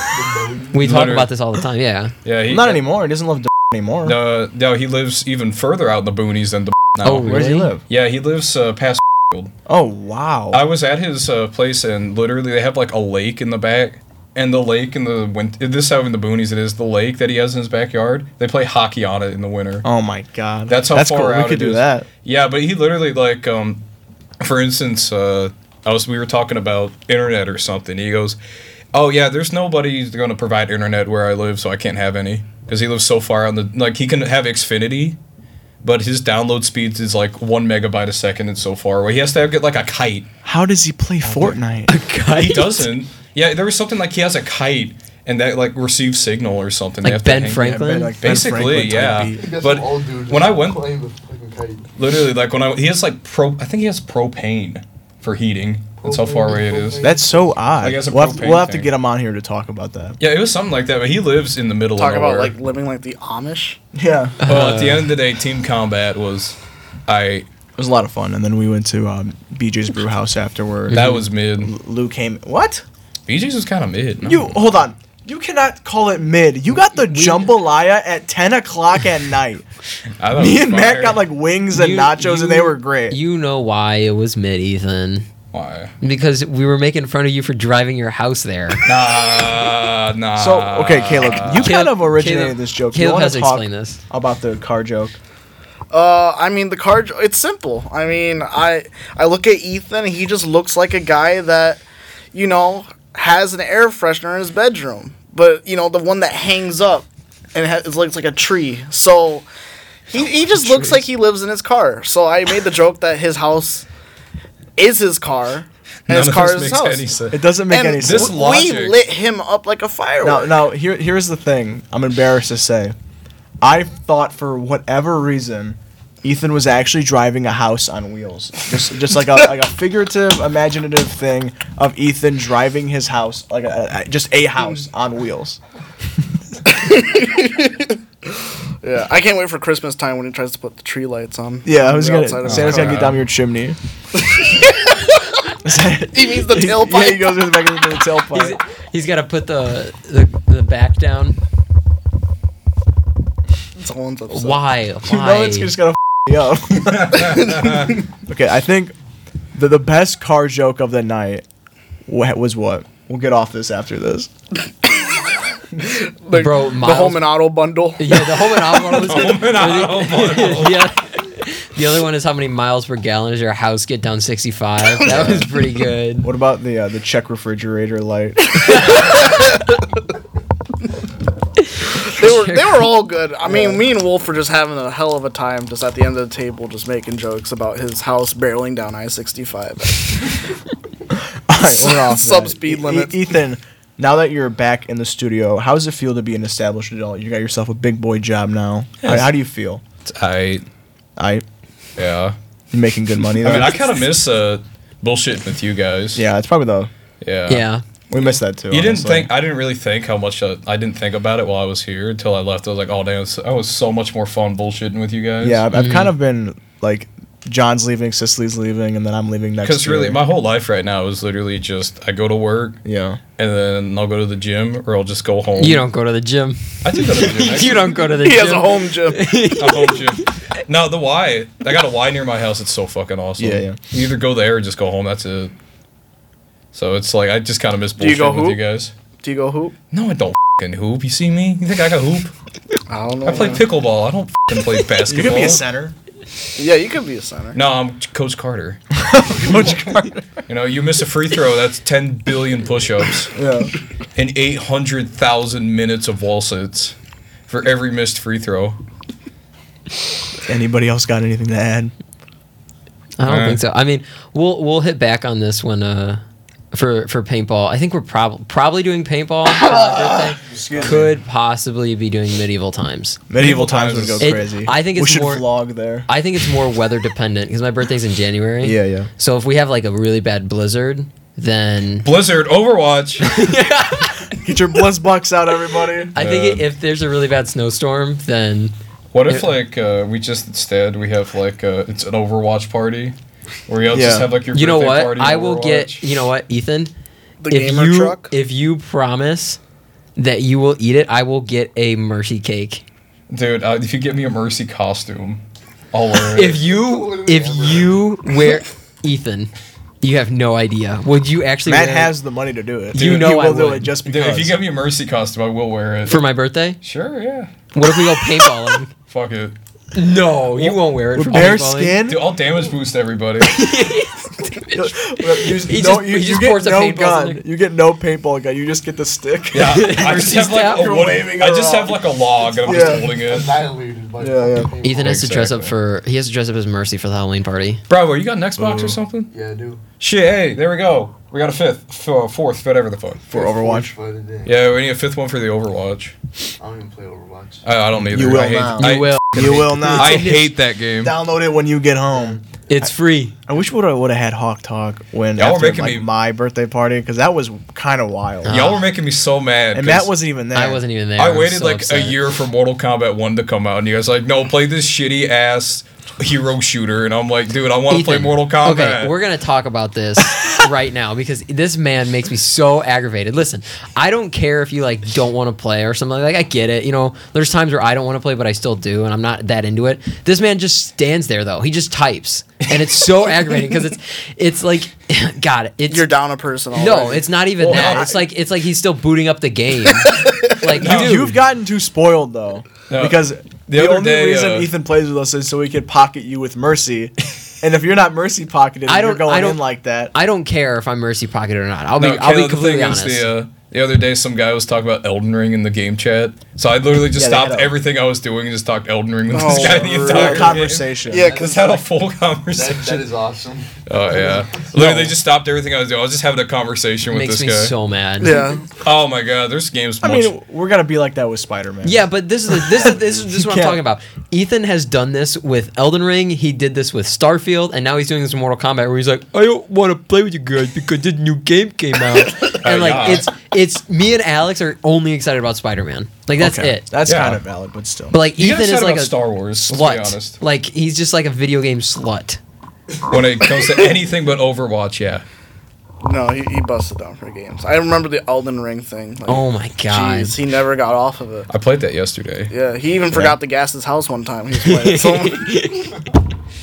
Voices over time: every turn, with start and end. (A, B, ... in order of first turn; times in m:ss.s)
0:00.1-0:00.9 A
0:00.7-0:02.1 B
0:00.8-0:01.3 C
0:02.2-0:02.8 C
0:02.5-0:04.2 D
0:04.0-0:09.5 C
0:07.0-0:07.7 B
0:07.3-0:07.8 D
0:09.7-0:10.6 D
0:10.5-0:19.8 C
0:19.8-0:22.1 D
0:20.7-0:23.8 C
0:24.4-0:28.4 C
0:28.9-0:35.2 C
0:35.8-0:40.3 C
0:40.4-0:41.9 D
0:41.2-0:41.6 C
0:41.9-0:42.9 B
0:42.3-0:47.6 C
0:47.0-0:48.2 B
0:47.6-0:49.5 D
0:48.2-0:50.8 C
0:49.3-0:51.9 A
0:52.0-0:57.1 C
0:56.0-0:57.8 A
0:57.0-1:00.2 D
0:57.8-0:58.9 C
1:00.2-1:02.5 C
1:02.0-1:03.8 E
1:03.9-1:04.4 D
1:04.4-1:05.1 B
1:04.5-1:07.5 C
1:07.8-1:12.8 D
1:10.9-1:11.2 B
1:10.9-1:11.7 C
1:13.3-1:14.6 C
1:14.2-1:19.7 D
1:16.9-1:17.5 B
1:20.2-1:21.2 C
1:20.4-1:23.2 D
1:21.7-1:25.3 B
1:25.5-1:25.9 C
1:26.0-1:28.8 B
1:28.8-1:31.8 C
1:30.4-1:35.2 D
1:31.6-1:34.0 B
1:35.9-1:49.5 E
1:50.1-1:53.8 E
1:50.5-1:51.1 D
1:54.8-1:57.1 E
1:56.1-1:57.4 C
1:57.3-1:58.4 D
1:57.7-2:00.6 E
1:58.0-1:59.0 C
2:00.2-2:03.0 D
2:03.6-2:15.6 D
2:16.7-2:23.1 E
2:21.6-2:23.8 D
2:22.4-2:23.2 C
2:24.3-2:25.2 E
2:25.6-2:28.6 D
2:26.1-2:27.7 E
2:28.3-2:31.4 B
2:33.8-2:34.6 E
2:34.3-2:35.7 B
2:35.0-2:37.7 D
2:36.9-2:37.9 C
2:38.3-2:39.0 D
2:39.5-2:41.4 D
2:42.1-2:44.3 D
2:45.8-2:49.0 E
2:46.3-2:47.3 B
2:48.0-2:56.3 B
2:49.0-2:50.9 C
2:55.1-2:55.5 D
2:56.2-2:59.0 D
2:58.9-2:59.4 E
3:02.0-3:02.9 B
3:02.1-3:10.4 E
3:03.4-3:03.8 D
3:11.5-3:19.8 D
3:11.6-3:13.2 E
3:19.0-3:19.3 C
3:20.0-3:20.6 C
3:21.2-3:21.4 D
3:22.0-3:22.4 C
3:22.7-3:23.8 D
3:23.4-3:26.2 C
3:26.2-3:26.9 D
3:27.2-3:27.6 C
3:27.5-3:27.8 B
3:28.1-3:29.3 D
3:28.7-3:35.6 C
3:35.4-3:40.2 D
3:35.7-3:36.1 B
3:39.6-3:42.8 C
3:42.8-3:43.2 D
3:43.4-3:45.8 C
3:45.6-3:50.3 B
3:46.8-3:48.0 C
3:48.1-3:49.2 E
3:49.4-3:55.5 C
3:53.4-3:53.8 D
3:56.7-3:58.9 C
3:58.0-3:58.6 E
3:59.2-3:59.8 E
3:59.9-4:02.3 C
4:02.9-4:03.6 E
4:03.2-4:05.6 C
4:05.1-4:06.0 D
4:06.6-4:07.6 E
4:07.5-4:08.8 C
4:09.0-4:10.3 D
4:09.4-4:09.9 C
4:10.5-4:13.3 C
4:13.3-4:13.7 D
4:14.2-4:17.0 C
4:17.5-4:18.8 C
4:20.4-4:21.9 D
4:23.2-4:33.2 B
4:23.3-4:23.6 C
4:30.5-4:31.2 D
4:33.3-4:36.1 D
4:33.4-4:34.3 C
4:34.2-4:35.5 B
4:36.1-4:42.1 B
4:38.6-4:39.1 D
4:42.0-4:43.4 C
4:43.2-4:44.3 B
4:44.3-4:46.1 D
4:46.1-4:48.7 B
4:46.2-4:46.6 C
4:49.1-4:53.2 C
4:53.7-4:56.1 C
4:53.9-4:54.3 D
4:54.5-4:56.9 B
4:57.4-4:58.3 E
4:57.5-4:59.6 B
5:00.2-5:02.8 B
5:03.3-5:06.6 C
5:06.3-5:12.1 B
5:06.5-5:08.0 A
5:11.7-5:14.6 D
5:12.9-5:13.9 B
5:12.9-5:13.4 C
5:14.0-5:16.2 C
5:16.1-5:16.8 B
5:16.8-5:17.5 C
5:17.7-5:18.9 B
5:19.1-5:19.6 C
5:19.9-5:22.0 B
5:21.2-5:22.3 D
5:21.3-5:23.6 C
5:23.4-5:27.4 B
5:24.7-5:32.0 D
5:29.5-5:33.5 C
5:29.6-5:30.9 B
5:32.6-5:33.1 D
5:32.6-5:35.3 A
5:34.2-5:34.7 D
5:34.8-5:37.8 B
5:35.0-5:35.7 C
5:37.9-5:39.3 C
5:38.6-5:39.0 D
5:39.3-5:39.8 A
5:40.0-5:43.2 C
5:43.3-5:43.9 D
5:43.3-5:44.6 A
5:44.4-5:46.2 C
5:46.6-5:47.7 A
5:47.6-5:51.2 C
5:48.0-5:52.9 D
5:48.8-5:50.3 B
5:52.2-5:52.4 A
5:52.7-5:53.3 B
5:53.5-5:58.6 D
5:55.4-5:56.1 C
5:58.4-5:58.8 B
5:58.5-6:00.1 C
5:59.7-6:00.8 D
6:00.5-6:02.2 B
6:01.2-6:09.1 C
6:07.9-6:26.1 B
6:25.9-6:27.3 E
6:26.7-6:31.3 B
6:27.6-6:28.2 C
6:27.7-6:28.2 D
6:30.1-6:30.4 E
6:30.7-6:31.3 C
6:30.8-6:40.1 D
6:32.9-6:34.7 C
6:38.9-6:43.3 B
6:42.0-6:53.1 C
6:47.2-6:47.7 D
6:49.3-6:51.8 E
6:49.4-6:51.4 D
6:52.5-6:54.6 A
6:53.9-6:57.7 C
6:54.8-6:55.0 D
6:57.1-6:58.5 B
6:58.2-6:58.6 E
6:58.8-7:00.3 C
7:00.0-7:03.8 D
7:01.8-7:16.8 B
7:12.5-7:13.3 C
7:16.4-7:18.2 D
7:17.1-7:17.4 C
7:18.1-7:19.2 B
7:18.4-7:20.4 C
7:19.7-7:22.4 B
7:23.1-7:25.2 C
7:26.0-7:31.5 E
7:29.3-7:30.4 B
7:31.5-7:32.5 C
7:32.5-7:35.6 E
7:34.6-7:36.0 B